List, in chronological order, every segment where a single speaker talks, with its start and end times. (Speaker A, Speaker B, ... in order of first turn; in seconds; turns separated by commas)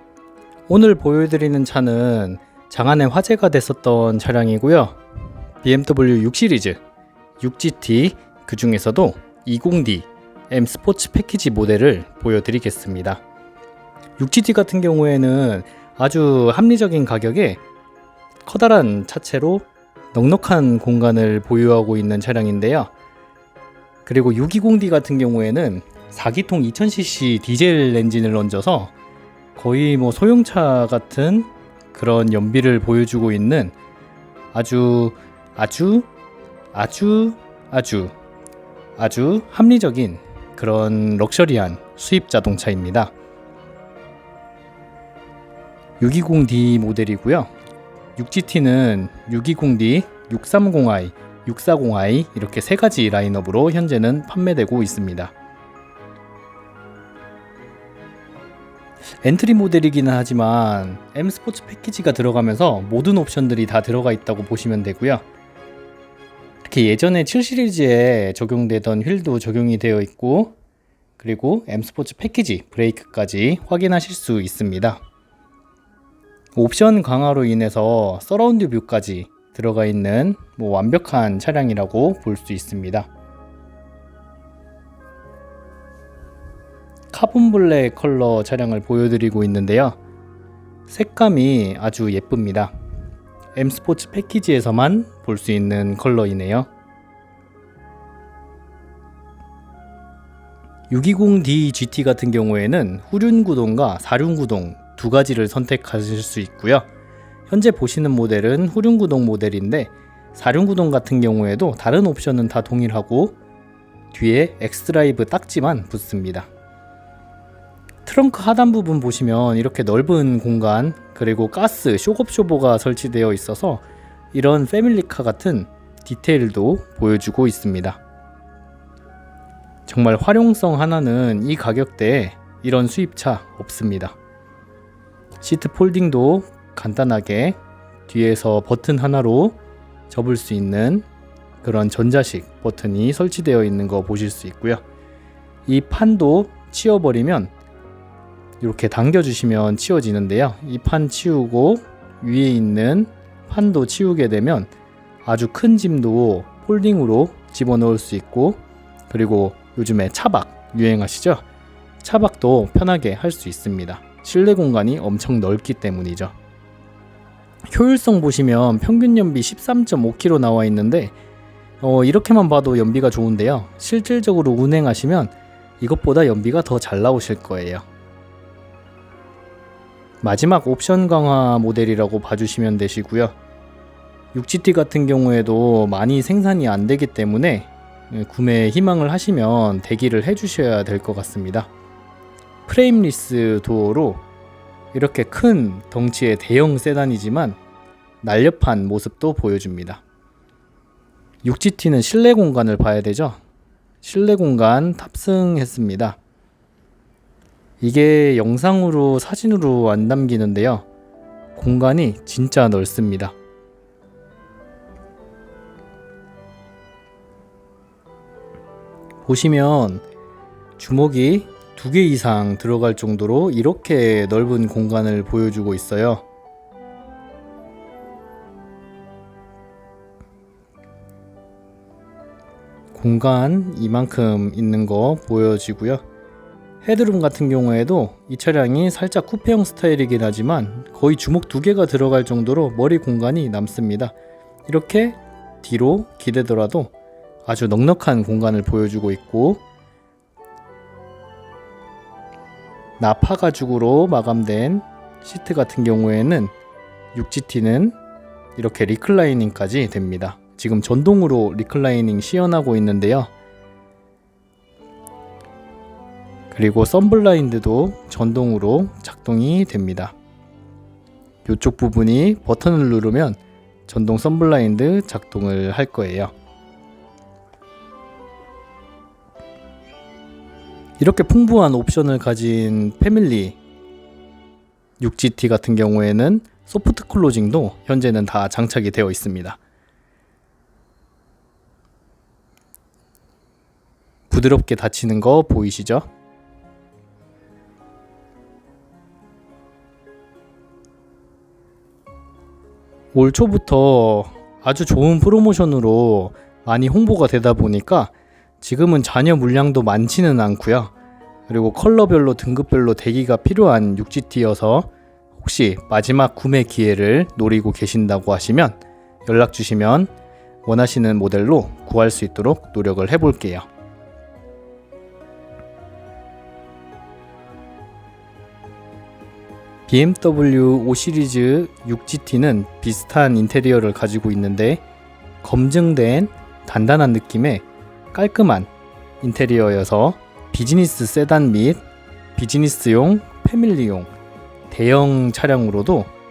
Speaker A: 0.7-5.0, Speaker A: 5.6-6.8, Speaker A: 7.4-13.2, Speaker A: 14.2-17.6, Speaker A: 18.4-22.9, Speaker A: 24.0-28.9, Speaker A: 29.6-33.7, Speaker A: 34.5-36.1, Speaker A: 36.7-38.1, Speaker A: 39.0-43.1, Speaker A: 46.0-47.5, Speaker A: 48.1-55.3, Speaker A: 59.2-65.2, Speaker A: 66.6-70.5, Speaker A: 71.2-75.0, Speaker A: 76.5-83.1, Speaker A: 87.1-90.0, Speaker A: 90.9-92.7, Speaker A: 93.5-96.7, Speaker A: 100.9-106.9, Speaker A: 107.5-113.4, Speaker A: 114.1-116.5, Speaker A: 118.0-123.8, Speaker A: 124.3-128.0, Speaker A: 129.9-134.2, Speaker A: 135.4-139.6, Speaker A: 140.1-141.1, Speaker A: 141.6-144.8, Speaker A: 145.7-147.5, Speaker A: 148.6-154.7, Speaker A: 155.2-161.4, Speaker A: 162.0-166.3, Speaker A: 167.7-171.1, Speaker A: 171.8-177.8, Speaker A: 180.2-183.3, Speaker A: 184.3-191.7, Speaker A: 192.7-194.2, Speaker A: 194.9-197.6, Speaker A: 198.2-200.0, Speaker A: 201.4-203.4, Speaker A: 204.0-206.2, Speaker A: 207.8-210.8, Speaker A: 211.5-213.3, Speaker A: 219.2-220.0, Speaker A: 220.8-226.2, Speaker A: 232.9-236.0, Speaker A: 236.8-244.1, Speaker A: 244.7-246.9, Speaker A: 247.4-249.6, Speaker A: 253.0-256.5, Speaker A: 257.1-257.9, Speaker A: 258.6-263.3, Speaker A: 266.5-270.1, Speaker A: 271.4-276.3, Speaker A: 281.0-283.6, Speaker A: 285.0-289.6, Speaker A: 294.3-296.1, Speaker A: 303.1-310.9, Speaker A: 311.5-320.1, Speaker A: 320.6-323.7, Speaker A: 329.9-334.8, Speaker A: 335.4-338.7, Speaker A: 339.2-341.8, Speaker A: 342.4-344.1, Speaker A: 344.7-346.1